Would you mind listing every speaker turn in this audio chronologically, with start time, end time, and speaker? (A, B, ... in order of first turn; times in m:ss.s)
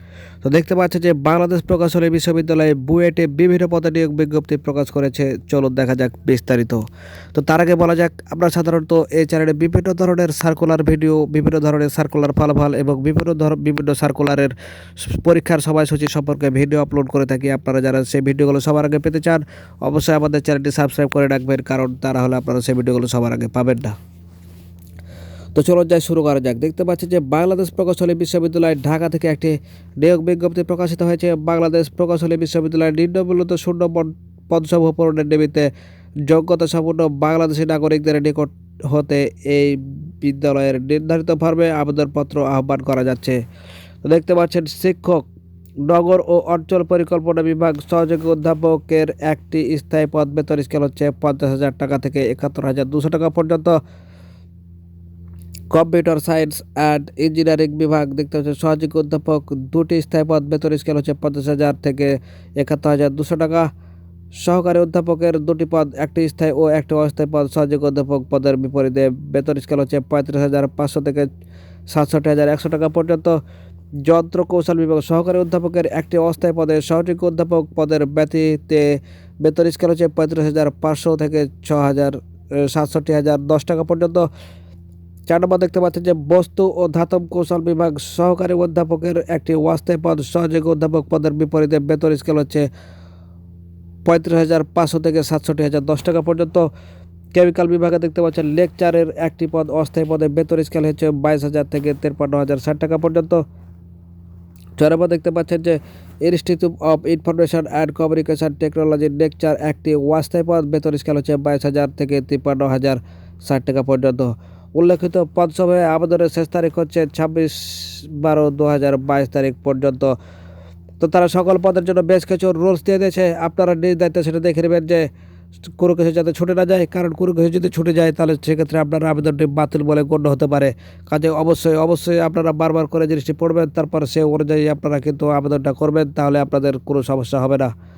0:00.4-0:24.0 A
0:25.6-0:35.7 A
0:36.3-0:43.4 A
0:44.0-0:45.3 A
0:45.8-0:53.8 A
0:55.7-1:03.7 A
1:04.4-1:11.3 A
1:11.9-1:13.4 A
1:14.0-1:24.3 A
1:25.3-1:32.7 A
1:34.0-1:36.7 A
1:37.3-1:43.4 A
1:44.8-2:00.2 A
2:01.0-2:05.1 A
2:05.6-2:17.7 A